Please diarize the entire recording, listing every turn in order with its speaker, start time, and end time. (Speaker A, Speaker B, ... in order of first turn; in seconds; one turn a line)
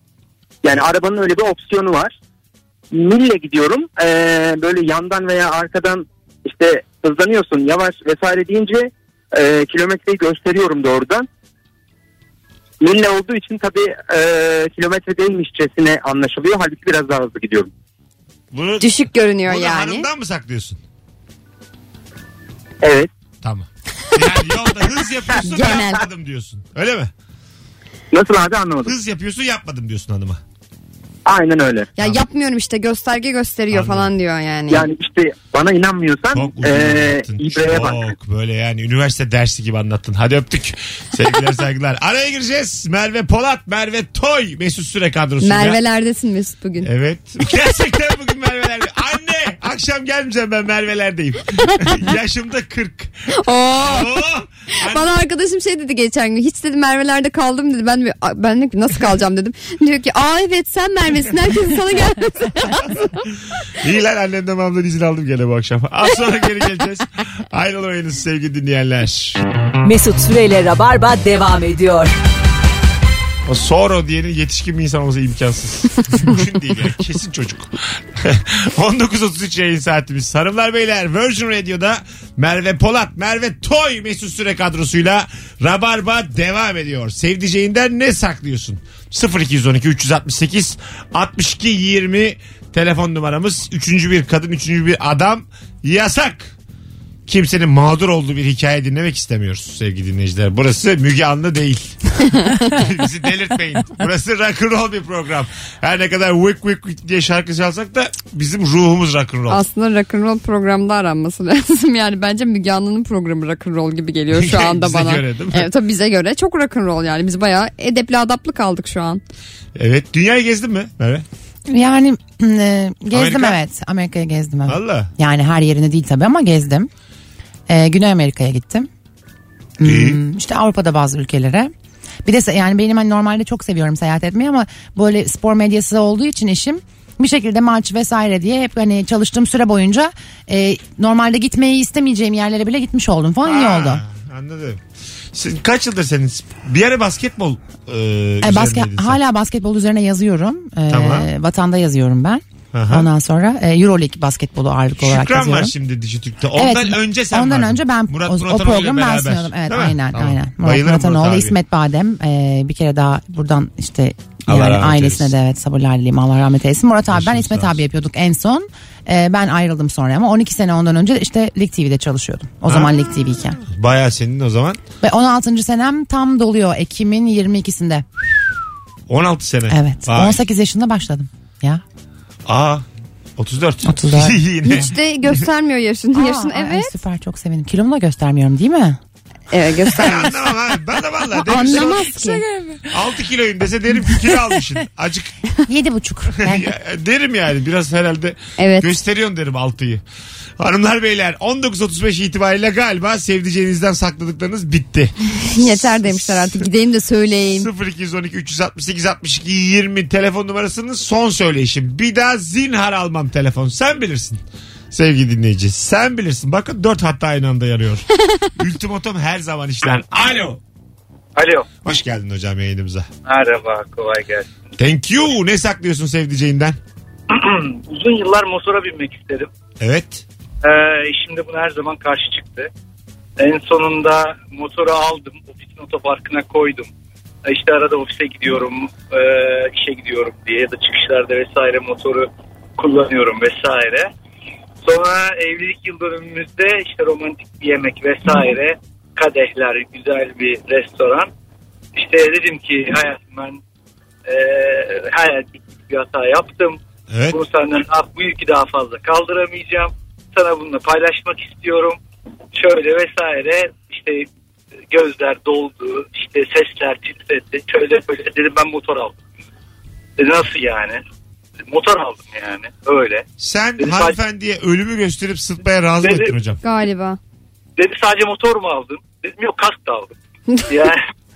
Speaker A: 0.6-2.1
Speaker A: 2.9-11.3
Speaker A: 12.8-17.7
Speaker B: 18.5-20.8
Speaker C: 18.8-20.1
Speaker A: 22.8-23.1
Speaker B: 23.4-27.1
Speaker C: 25.4-26.0
Speaker A: 28.1-28.9
Speaker B: 28.8-30.4
Speaker A: 31.2-31.9
Speaker C: 32.0-34.9
Speaker B: 33.7-34.1
Speaker A: 34.7-38.0
Speaker B: 36.3-45.8
Speaker C: 45.4-46.9
Speaker B: 46.8-55.1
Speaker C: 53.3-54.2
Speaker C: 54.7-63.1
Speaker B: 63.8-69.4
Speaker D: 69.8-72.1
Speaker B: 73.5-96.5
Speaker B: 97.3-102.0
Speaker C: 102.3-102.6
Speaker B: 102.6-109.6
Speaker C: 109.5-119.2
Speaker B: 114.3-115.7
Speaker B: 119.7-121.2
Speaker E: 121.7-126.9
Speaker B: 123.1-123.6
Speaker B: 124.7-125.1
Speaker E: 127.7-128.9
Speaker E: 129.8-131.7
Speaker B: 129.8-130.2
Speaker E: 132.2-144.0
Speaker B: 143.4-144.8
Speaker B: 145.3-149.2
Speaker E: 148.4-155.7
Speaker B: 150.9-151.3
Speaker B: 152.7-153.1
Speaker B: 155.0-161.6
Speaker E: 156.6-173.6
Speaker B: 164.5-165.3
Speaker B: 167.1-167.8
Speaker B: 172.7-172.9
Speaker B: 173.6-174.8
Speaker E: 175.0-178.0
Speaker B: 179.1-180.4
Speaker E: 179.7-181.8
Speaker B: 182.4-182.8
Speaker B: 183.4-184.9
Speaker E: 183.8-184.9
Speaker C: 184.7-186.9
Speaker E: 186.1-189.0
Speaker C: 189.5-190.4
Speaker B: 189.9-192.2
Speaker C: 191.4-192.4
Speaker E: 191.5-192.9
Speaker B: 192.9-195.3
Speaker E: 195.7-196.7
Speaker B: 196.3-200.0
Speaker C: 198.6-198.9
Speaker B: 200.6-206.7
Speaker C: 205.4-207.7
Speaker B: 207.5-220.6
Speaker F: 221.3-221.7
Speaker B: 221.8-223.1
Speaker F: 223.2-224.5
Speaker B: 224.8-226.8
Speaker F: 227.3-229.5
Speaker B: 229.8-230.2
Speaker F: 230.6-232.7
Speaker F: 233.4-236.9
Speaker F: 237.4-244.1
Speaker F: 244.8-251.3
Speaker F: 251.9-253.6
Speaker F: 254.2-256.8
Speaker B: 257.1-257.4
Speaker F: 257.3-262.0
Speaker F: 262.5-264.3
Speaker F: 264.9-269.2
Speaker F: 270.2-271.0
Speaker F: 271.7-273.2
Speaker B: 273.4-276.6
Speaker F: 273.8-274.2
Speaker F: 276.0-276.3
Speaker C: 276.6-277.2
Speaker F: 277.8-280.1
Speaker F: 280.7-281.0